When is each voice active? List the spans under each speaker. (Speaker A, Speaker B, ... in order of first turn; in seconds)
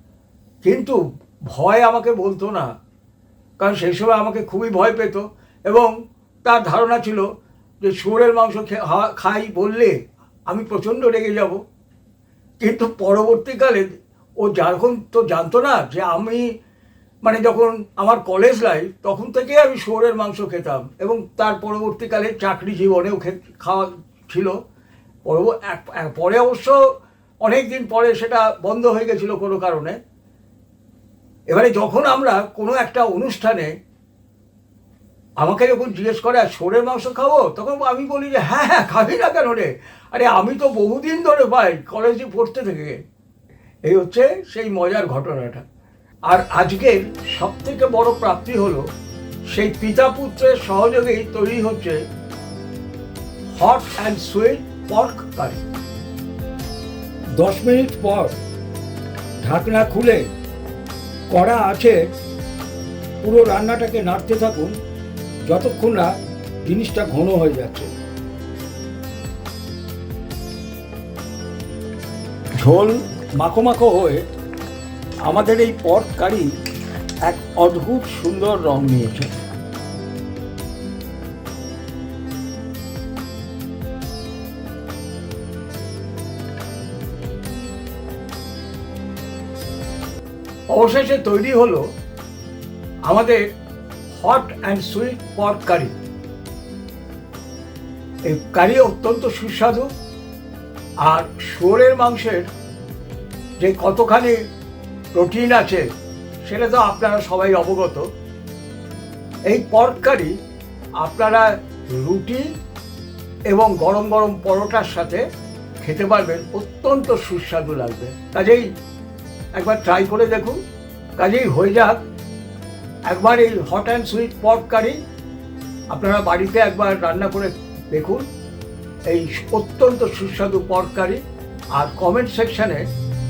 Speaker A: 0.6-2.7, 3.6-7.3, 7.8-10.0, 10.5-11.6, 12.6-16.5, 17.2-24.6, 25.2-26.8, 27.4-30.0, 31.5-33.7, 35.4-43.0, 43.9-45.6, 46.3-48.9, 49.5-52.0, 53.6-55.6, 57.4-58.3, 59.4-60.3, 61.3-62.0, 63.2-64.8, 65.5-67.9, 72.6-74.2, 75.2-76.5, 77.2-79.3, 90.7-91.9, 93.1-93.4, 94.2-96.0, 98.2-99.9, 101.0-102.5, 103.6-104.4, 105.2-105.9, 106.4-108.1, 109.5-110.4, 111.0-112.5, 113.5-115.2, 115.8-118.7, 119.5-120.6, 121.2-122.0, 123.1-125.0, 125.9-128.3, 129.1-131.2, 131.7-132.8